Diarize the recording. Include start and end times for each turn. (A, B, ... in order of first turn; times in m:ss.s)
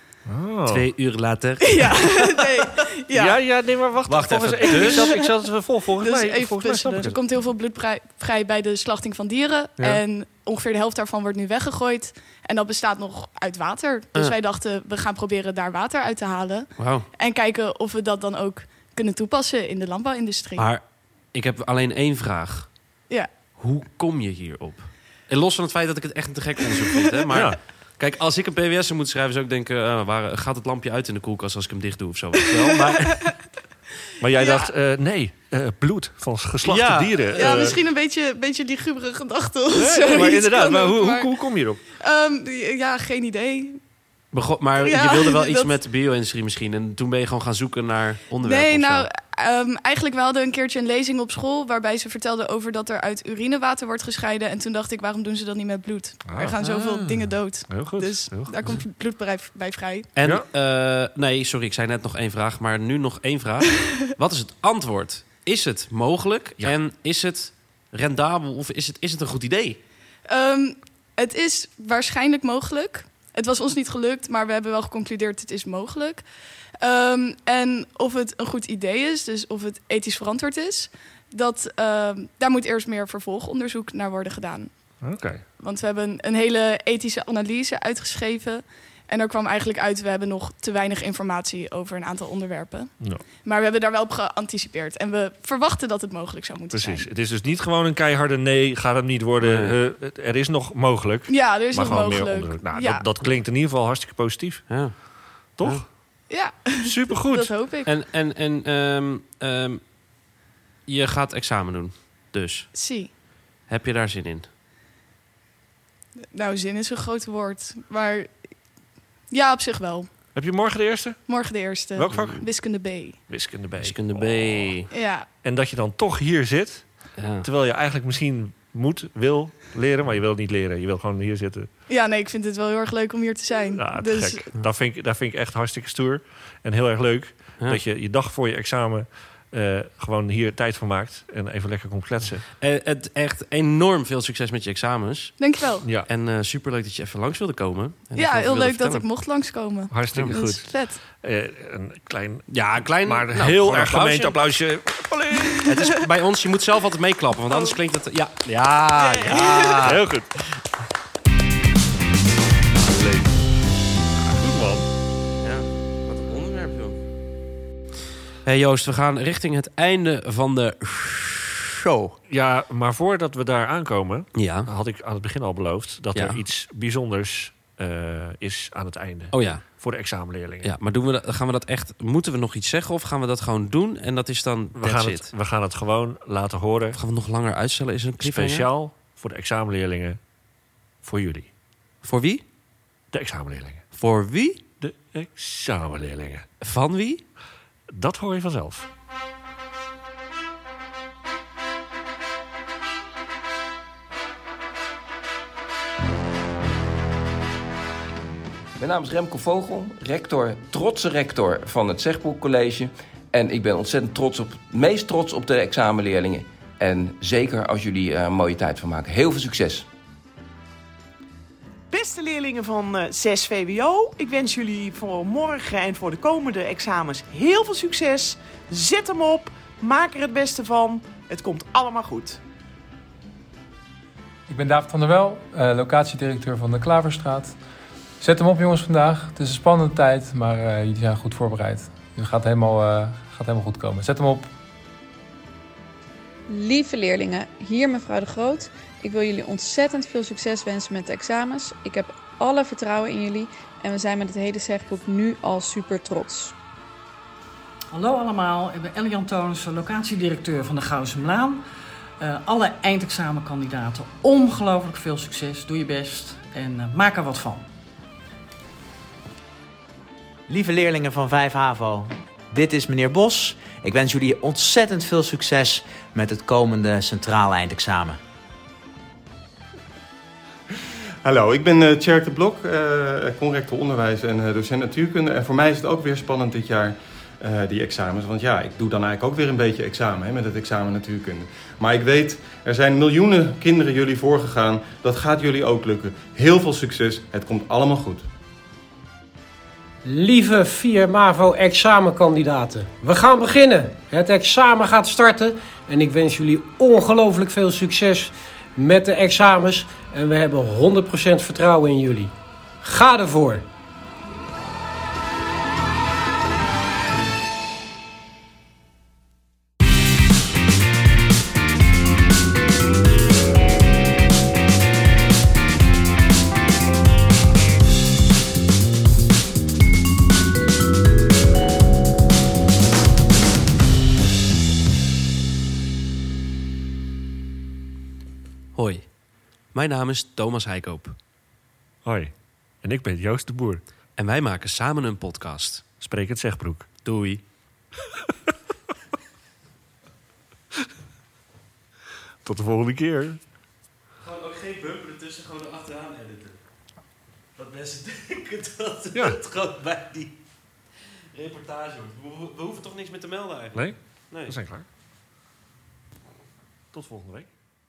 0:00.3-0:00.9 A
0:00.7-0:02.6 B
0:01.7-0:03.4 C
0:03.1-0:07.2 A
0:04.1-0:05.1 B
0:04.6-0:05.3 C
0:06.0-0:20.7 C
0:16.8-0:17.1 B
0:20.6-0:22.7 B
0:23.6-0:33.1 B
0:34.2-0:37.8 A
0:34.4-0:34.7 C
0:36.6-0:37.8 B
0:37.4-0:41.3 C
0:39.7-0:41.8 A
0:42.0-0:43.8 C
0:44.3-0:49.1 B
0:44.8-0:45.8 C
0:48.4-1:00.1 C
0:56.3-0:56.6 A
0:56.6-0:57.2 B
0:57.7-0:58.8 A
1:00.2-1:09.8 B
1:10.3-1:16.2 C
1:16.8-1:24.7 C
1:25.0-1:25.4 A
1:25.6-1:32.9 C
1:33.4-1:37.1 C
1:36.7-1:44.7 A
1:39.4-1:39.8 B
1:41.3-1:43.0 C
1:44.7-1:45.0 B
1:45.6-1:45.8 B
1:45.6-1:45.9 A
1:46.3-1:47.9 C
1:46.8-1:47.5 A
1:47.8-1:49.8 B
1:50.9-1:52.7 B
1:52.7-1:53.1 C
1:53.7-1:54.5 B
1:56.3-1:58.3 C
1:59.3-2:00.1 C
2:00.4-2:01.2 A
2:01.3-2:03.2 C
2:02.0-2:02.4 A
2:02.1-2:02.4 B
2:03.3-2:04.8 A
2:03.8-2:04.9 B
2:04.9-2:05.3 C
2:05.4-2:06.9 A
2:07.2-2:07.5 B
2:07.4-2:11.7 A
2:11.9-2:14.5 C
2:13.8-2:22.5 A
2:22.6-2:25.4 B
2:25.4-2:25.8 C
2:26.1-2:29.0 B
2:28.2-2:31.0 C
2:29.9-2:35.6 A
2:32.5-2:34.4 B
2:35.4-2:35.7 C
2:35.7-2:40.0 B
2:39.0-2:39.8 C
2:39.8-2:40.3 A
2:42.8-2:43.3 B
2:44.2-2:44.8 A
2:45.4-2:47.0 B
2:48.4-2:52.2 B
2:52.3-3:00.7 A
2:54.4-2:54.7 B
2:56.1-2:56.4 B
2:59.3-2:59.6 B
3:00.6-3:05.3 B
3:04.8-3:07.0 A
3:06.9-3:08.7 B
3:08.2-3:10.2 A
3:11.0-3:11.5 A
3:12.0-3:12.4 B
3:13.1-3:13.8 A
3:13.9-3:14.6 B
3:14.8-3:16.5 A
3:16.6-3:17.2 B
3:17.9-3:18.9 A
3:28.8-3:39.9 D
3:41.9-3:52.4 E
3:54.5-3:57.6 F
3:58.2-4:04.5 F
4:06.5-4:16.5 G
4:17.9-4:21.6 H
4:22.2-4:27.7 H
4:30.5-4:38.2 I
4:41.2-4:58.3 J
5:00.0-5:13.6 K
5:38.8-5:39.1 B
5:39.7-5:41.2 B
5:42.0-5:42.3 A
5:42.8-5:43.8 A
5:44.2-5:45.8 B
5:46.0-5:46.9 A
5:47.0-5:47.4 B
5:52.4-5:53.4 A
5:54.2-5:56.6 B
5:57.6-6:00.3 B
6:01.3-6:04.6 B
6:03.8-6:04.8 A
6:06.9-6:07.5 A